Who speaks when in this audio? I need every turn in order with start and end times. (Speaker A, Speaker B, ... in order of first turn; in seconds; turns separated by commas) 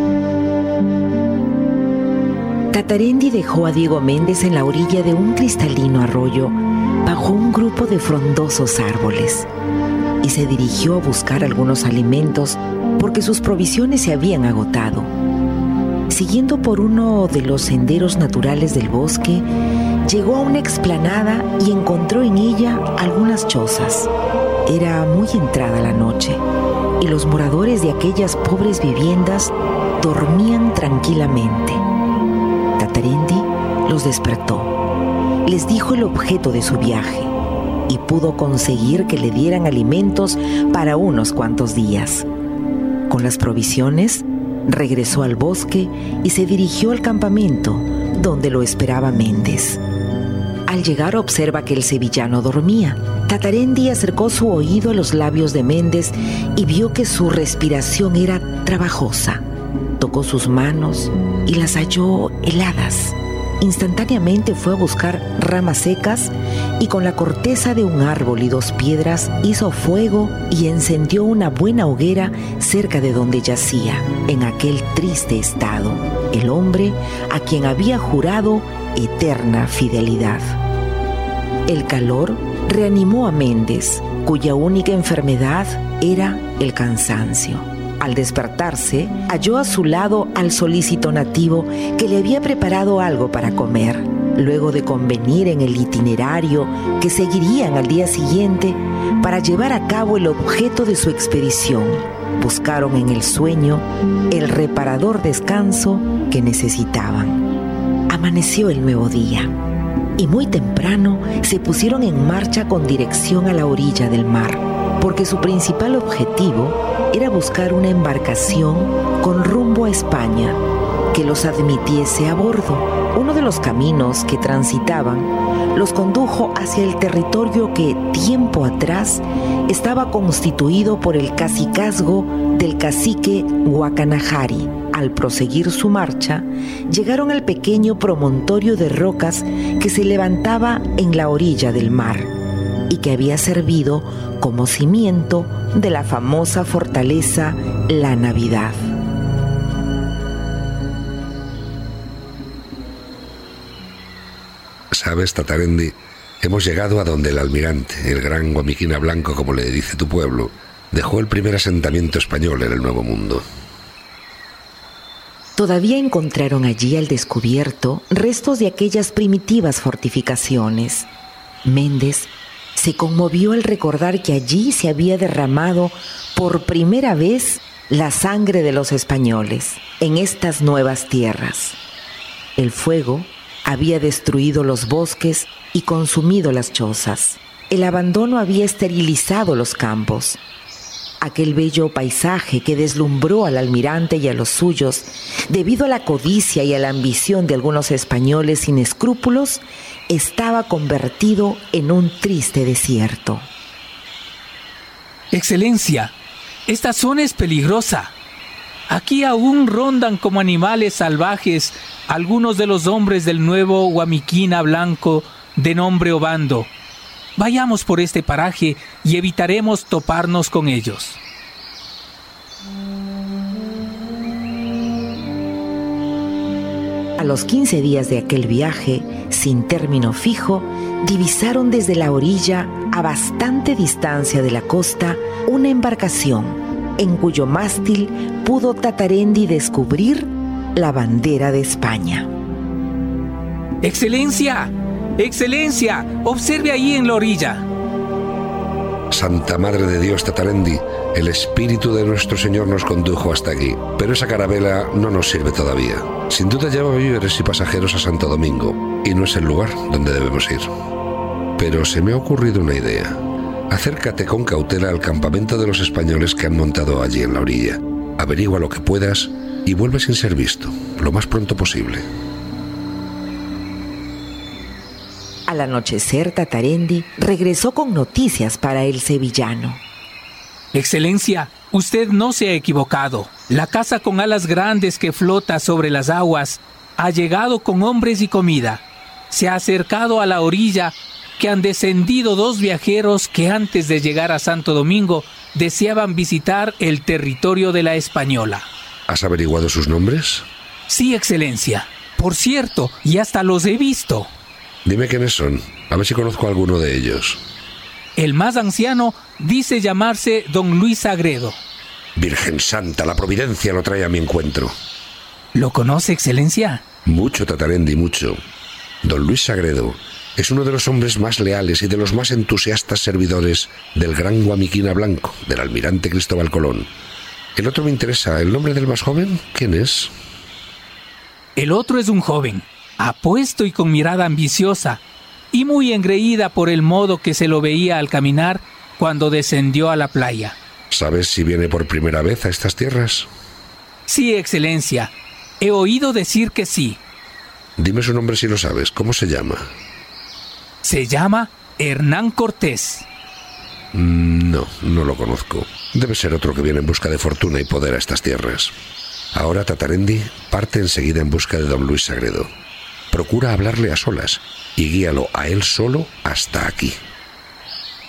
Speaker A: 2.7-9.5, Speaker A: 10.2-15.1, Speaker A: 16.1-19.5, Speaker A: 20.1-24.1, Speaker A: 24.7-26.4, Speaker A: 27.0-31.8, Speaker A: 32.8-34.8, Speaker A: 35.5-37.3, Speaker A: 37.9-42.3, Speaker A: 43.1-49.8, Speaker A: 50.7-59.4, Speaker A: 60.0-80.5, Speaker A: 81.7-107.5, Speaker A: 108.1-109.5, Speaker A: 110.2-120.6, Speaker A: 121.1-142.3, Speaker A: 142.9-148.9, Speaker B: 154.9-163.4, Speaker A: 165.6-171.1, Speaker A: 171.7-181.8, Speaker A: 182.6-190.4, Speaker A: 191.2-203.5, Speaker C: 205.3-206.1, Speaker C: 206.7-208.1, Speaker C: 208.9-216.7, Speaker C: 217.3-221.2, Speaker A: 227.2-242.3, Speaker C: 243.8-247.7, Speaker B: 249.1-260.7, Speaker B: 261.6-263.1, Speaker B: 263.7-272.1, Speaker A: 275.5-279.8, Speaker C: 280.7-298.7, Speaker B: 299.1-300.5, Speaker C: 300.9-304.3, Speaker B: 304.9-307.4, Speaker C: 308.2-311.6, Speaker B: 312.2-314.7, Speaker C: 315.6-316.8, Speaker B: 317.1-318.4, Speaker B: 319.0-326.9, Speaker B: 327.6-330.1, Speaker C: 331.6-340.6, Speaker B: 340.9-343.3, Speaker C: 344.1-347.0, Speaker B: 347.8-349.6, Speaker C: 350.8-353.1, Speaker B: 353.9-358.7, Speaker B: 359.4-362.5, Speaker B: 363.1-367.0